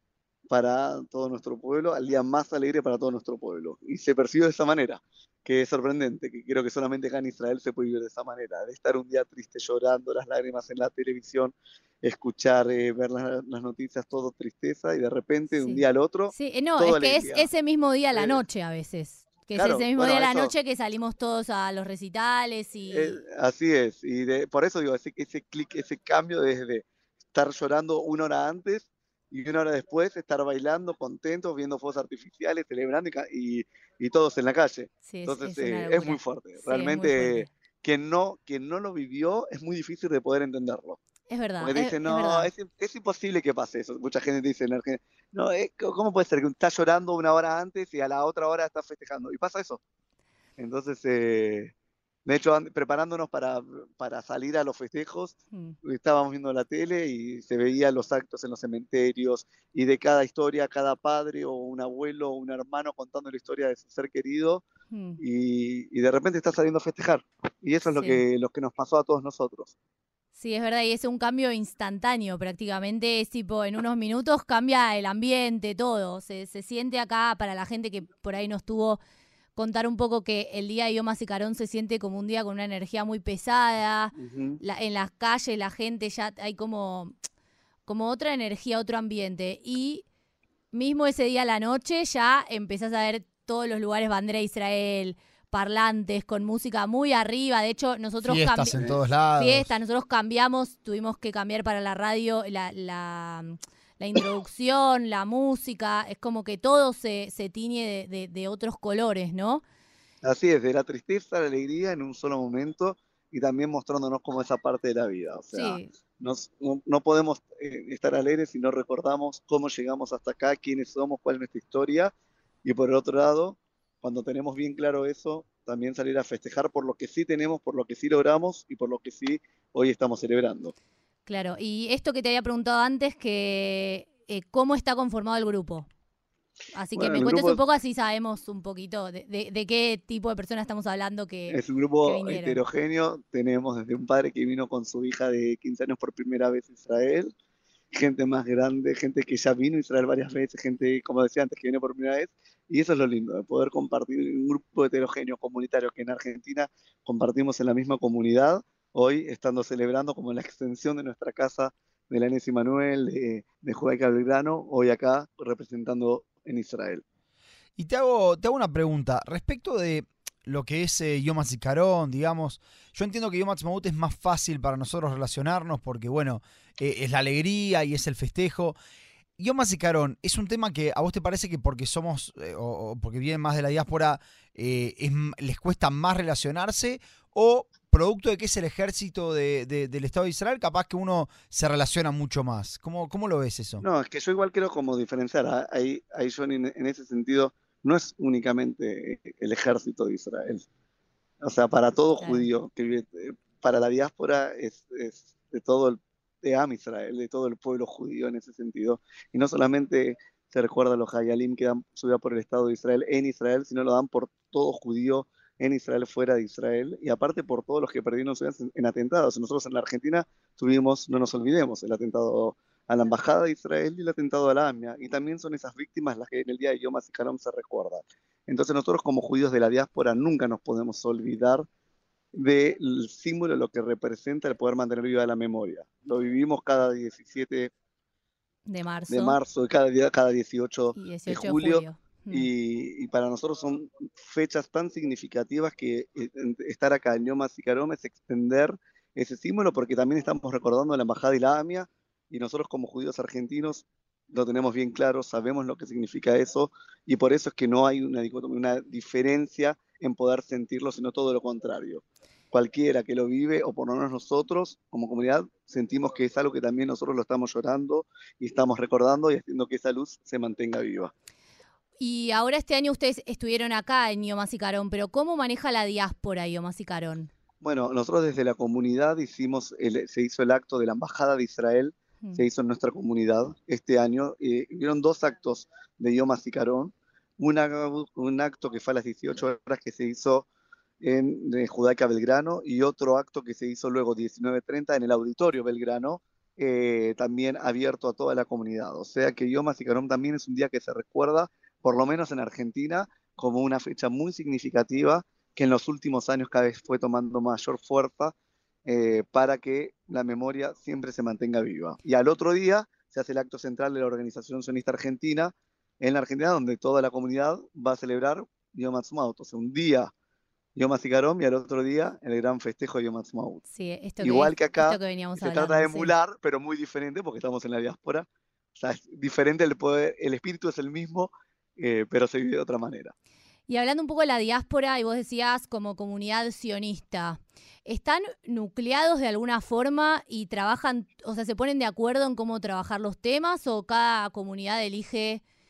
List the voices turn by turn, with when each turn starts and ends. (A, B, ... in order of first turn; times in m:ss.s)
0:00.5-0:17.5 A
0:15.5-0:23.2 B
0:18.1-0:18.4 A
0:19.6-0:20.5 A
0:22.9-0:41.0 A
0:35.1-0:37.5 B
0:41.3-0:42.5 B
0:41.6-0:49.8 A
0:50.6-0:51.7 A
0:52.2-1:04.6 A
1:04.9-1:05.2 B
1:05.2-1:09.7 A
1:07.8-1:08.2 B
1:10.4-1:19.0 B
1:19.6-1:27.1 B
1:24.1-1:24.6 A
1:27.8-1:30.0 B
1:30.7-1:49.6 B
1:38.2-1:39.7 C
1:50.2-2:02.1 A
1:55.5-1:55.9 B
2:02.6-2:10.7 A
2:11.2-2:15.9 B
2:16.7-2:22.6 B
2:17.0-2:17.6 A
2:21.5-2:27.3 A
2:27.9-2:47.0 A
2:47.8-2:58.7 C
2:59.4-3:13.8 C
3:13.8-3:20.6 A
3:21.4-3:51.7 A
3:22.2-3:22.5 B
3:52.3-3:57.7 A
3:58.7-3:59.4 B
3:59.1-4:31.1 A
4:00.9-4:02.5 B
4:32.0-4:37.3 B
4:37.6-4:50.4 A
4:51.0-5:08.3 A
5:08.8-5:20.1 A
5:20.8-5:23.6 A
5:23.7-5:26.1 B
5:24.2-5:33.1 A
5:33.7-5:45.4 B